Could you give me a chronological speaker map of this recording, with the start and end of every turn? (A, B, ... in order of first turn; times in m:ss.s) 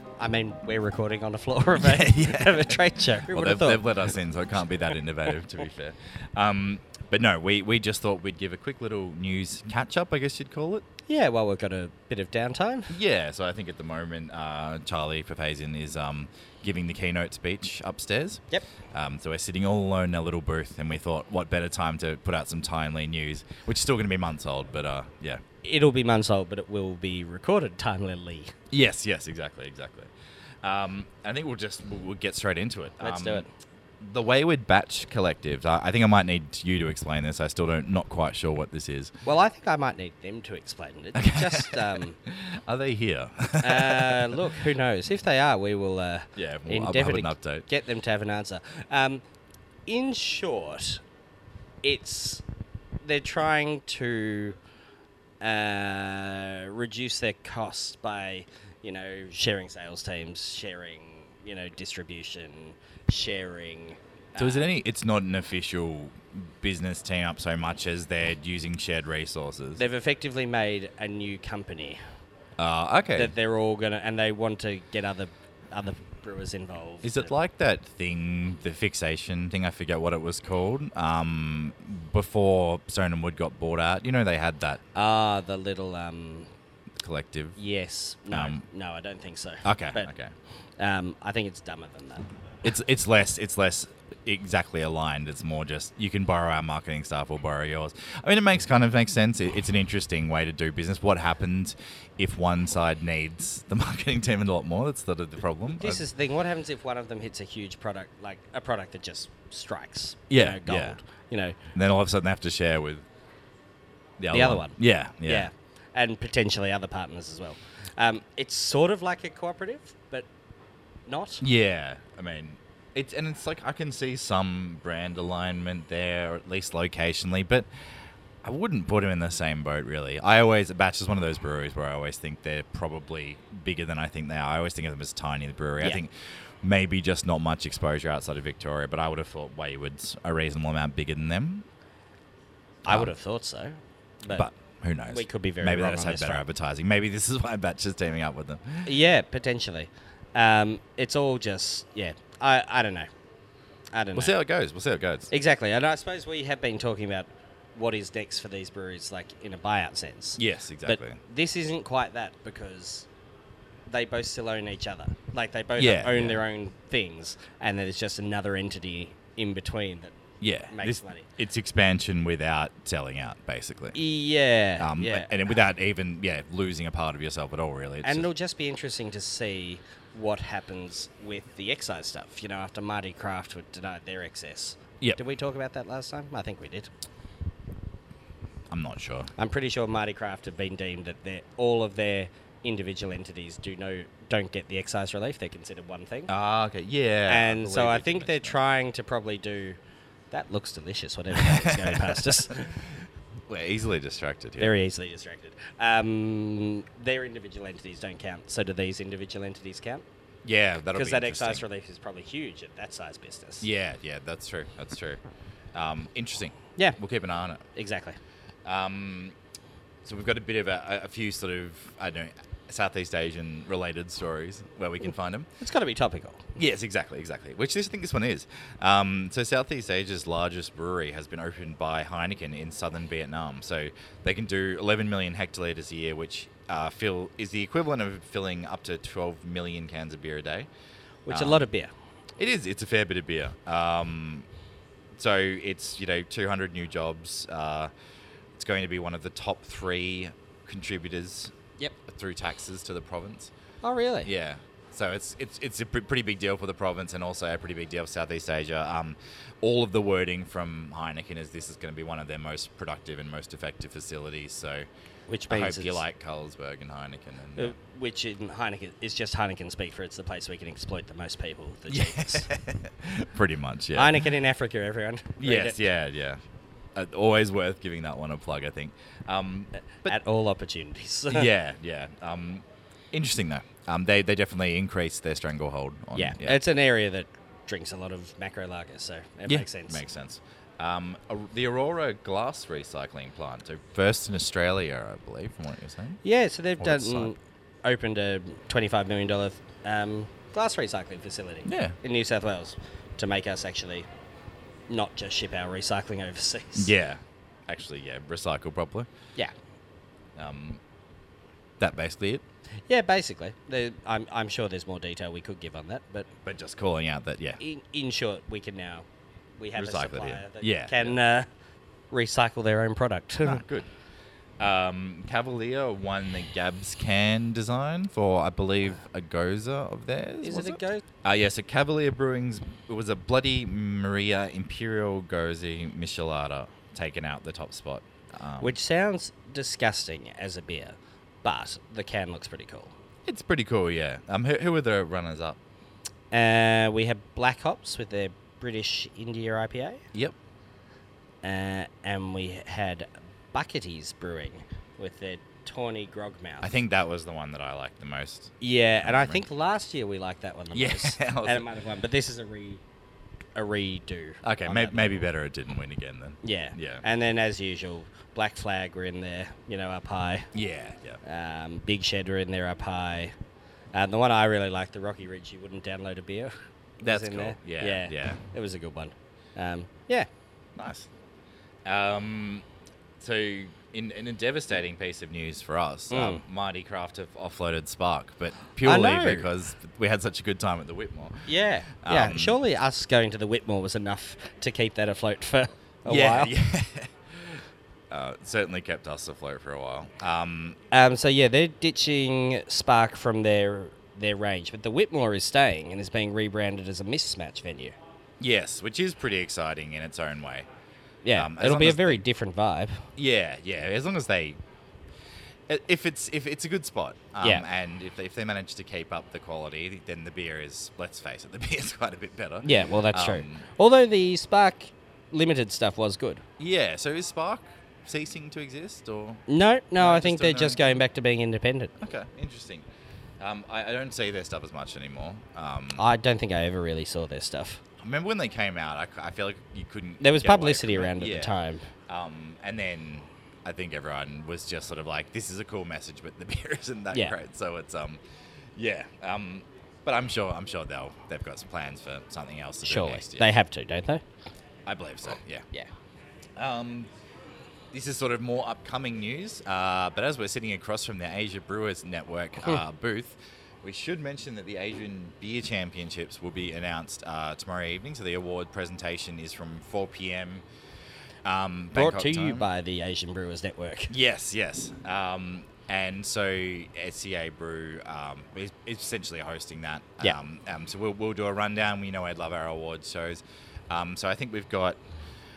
0:00.2-0:04.0 A
0:01.8-0:10.8 B
0:11.1-0:12.9 A
0:12.9-0:25.4 B
0:25.6-0:28.5 A
0:28.7-0:30.1 B
0:30.6-0:33.5 B
0:33.0-0:33.5 A
0:34.0-0:39.1 B
0:39.2-0:42.2 A
0:41.2-0:44.5 B
0:43.6-0:49.2 A
0:46.4-0:47.7 B
0:49.9-0:51.0 A
0:51.8-0:52.4 A
0:53.0-0:54.6 A
0:55.4-1:04.7 A
1:04.4-1:09.8 B
1:09.8-1:12.0 A
1:12.6-1:13.3 B
1:13.2-1:17.3 A
1:17.0-1:24.8 B
1:24.9-1:26.5 A
1:27.0-1:27.6 B
1:27.6-1:30.1 A
1:28.3-1:28.6 B
1:29.6-1:30.3 B
1:30.8-1:32.3 A
1:32.6-1:46.0 B
1:45.7-1:51.6 A
1:50.3-1:51.0 B
1:51.8-1:53.0 B
1:54.2-1:55.5 B
1:54.3-2:00.3 A
2:01.1-2:01.4 A
2:01.4-2:07.7 B
2:08.4-2:16.1 B
2:16.6-2:21.6 B
2:22.8-2:24.5 A
2:22.9-2:23.1 B
2:24.3-2:29.0 B
2:25.1-2:26.4 A
2:28.9-2:33.1 A
2:33.9-2:34.3 A
2:34.1-2:35.3 B
2:35.3-2:43.1 A
2:40.4-2:41.2 B
2:43.9-2:50.2 A
2:45.8-2:46.4 B
2:50.4-2:54.0 B
2:50.7-2:51.3 A
2:53.9-2:55.4 A
2:54.8-2:58.3 B
2:58.0-3:06.9 A
3:08.7-3:09.3 B
3:09.4-3:16.3 A
3:16.3-3:18.6 B
3:17.3-3:19.8 A
3:20.3-3:22.8 A
3:21.3-3:24.8 B
3:24.6-3:30.0 A
3:30.4-3:31.6 B
3:30.9-3:33.7 A
3:33.6-3:35.2 B
3:35.8-3:37.6 B
3:37.8-3:38.2 A
3:38.6-3:39.4 B
3:40.0-3:45.5 B
3:45.6-3:46.5 A
3:46.6-4:00.7 B
4:01.3-4:01.9 A
4:01.3-4:01.7 B
4:02.4-4:04.5 B
4:05.2-4:07.9 B
4:08.6-4:11.5 B
4:12.1-4:13.5 B
4:13.8-4:14.3 A
4:14.2-4:24.9 B
4:25.3-4:26.0 A
4:25.5-4:27.8 B
4:27.6-4:32.5 A
4:31.9-4:34.3 B
4:34.0-4:35.8 A
4:35.4-4:36.4 B
4:37.0-4:40.2 B
4:40.0-4:41.5 A
4:41.3-4:46.6 B
4:46.2-4:50.0 A
4:49.5-4:56.2 B
4:56.2-5:04.1 A
4:56.8-4:57.3 B
5:01.6-5:02.0 B
5:04.9-5:06.9 A
5:06.8-5:09.1 B
5:10.4-5:10.8 B
5:11.8-5:12.4 B
5:12.9-5:16.3 A
5:16.5-5:17.6 B
5:17.6-5:19.1 A
5:19.6-5:21.5 A
5:19.8-5:21.2 B
5:22.1-5:23.6 A
5:23.4-5:23.9 B
5:24.6-5:38.8 B
5:30.4-5:31.0 A
5:38.6-5:42.9 A
5:43.3-5:45.6 B
5:46.3-5:50.0 A
5:51.4-5:56.7 A
5:56.6-5:59.4 B
5:58.6-6:02.8 A
6:00.7-6:01.7 B
6:03.6-6:05.3 A
6:04.4-6:07.0 B
6:06.4-6:10.5 A
6:10.5-6:11.2 B
6:11.2-6:13.3 A
6:13.9-6:20.3 A
6:17.0-6:18.4 B
6:20.8-6:21.1 B
6:21.9-6:22.6 B
6:23.2-6:31.5 B
6:26.1-6:26.4 A
6:28.8-6:29.5 A
6:31.5-6:36.5 A
6:32.0-6:32.6 B
6:36.1-6:40.8 B
6:40.9-6:48.0 A
6:48.4-6:50.7 B
6:51.2-6:53.1 A
6:51.4-6:52.2 B
6:53.2-6:54.6 B
6:55.7-7:03.7 B
6:57.4-6:57.7 A
7:02.6-7:06.4 A
7:06.6-7:09.4 B
7:09.5-7:11.9 A
7:10.0-7:10.8 B
7:12.0-7:12.8 B
7:13.4-7:16.0 B
7:16.0-7:17.8 A
7:18.0-7:21.5 B
7:20.2-7:21.9 A
7:22.1-7:28.2 B
7:28.8-7:33.6 B
7:32.8-7:34.2 A
7:34.9-7:35.7 B
7:36.6-7:37.1 B
7:37.9-7:50.6 B
7:51.4-7:52.7 B
7:51.9-7:54.1 A
7:54.1-8:05.0 B